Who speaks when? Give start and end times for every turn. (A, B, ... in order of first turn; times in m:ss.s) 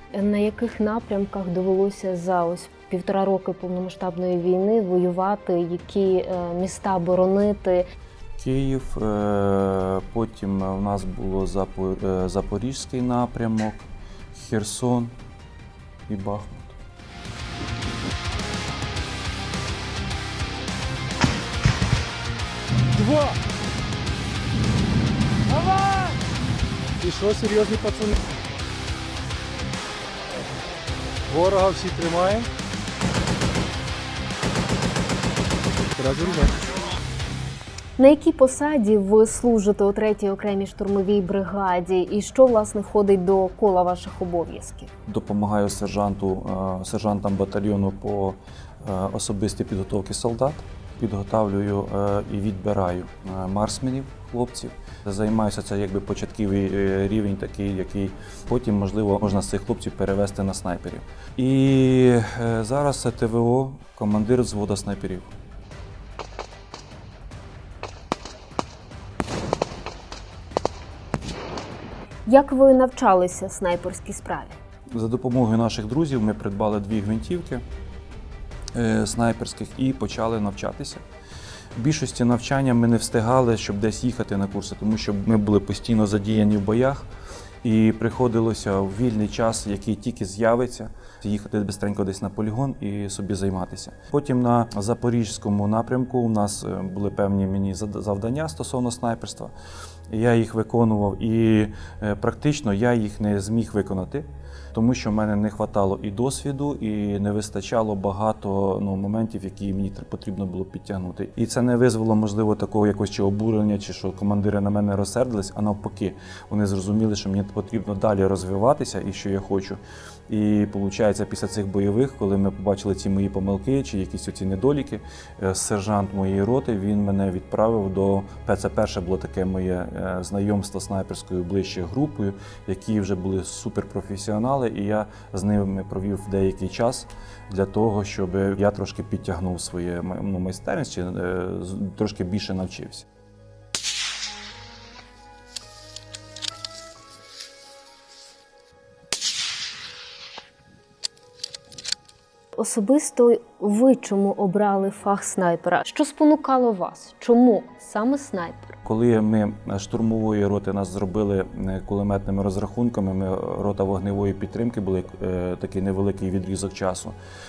0:00.1-0:07.9 A
0:08.4-0:15.1 B
0:16.1-0:16.8 B
0:23.0-0:23.4 C
0:25.5-0:26.1 C
0:27.0-0:28.2 C
0:31.3-0:32.5 C
0:35.8-0:36.7 C
0:38.0-0:44.9 A
0:45.1-1:05.3 B
1:12.3-1:14.6 A
1:14.9-1:17.6 B
1:18.7-1:21.0 B
1:21.8-1:27.1 B
1:27.6-1:39.5 B
1:40.1-2:23.1 B
2:32.6-2:38.8 A
2:38.8-2:47.2 B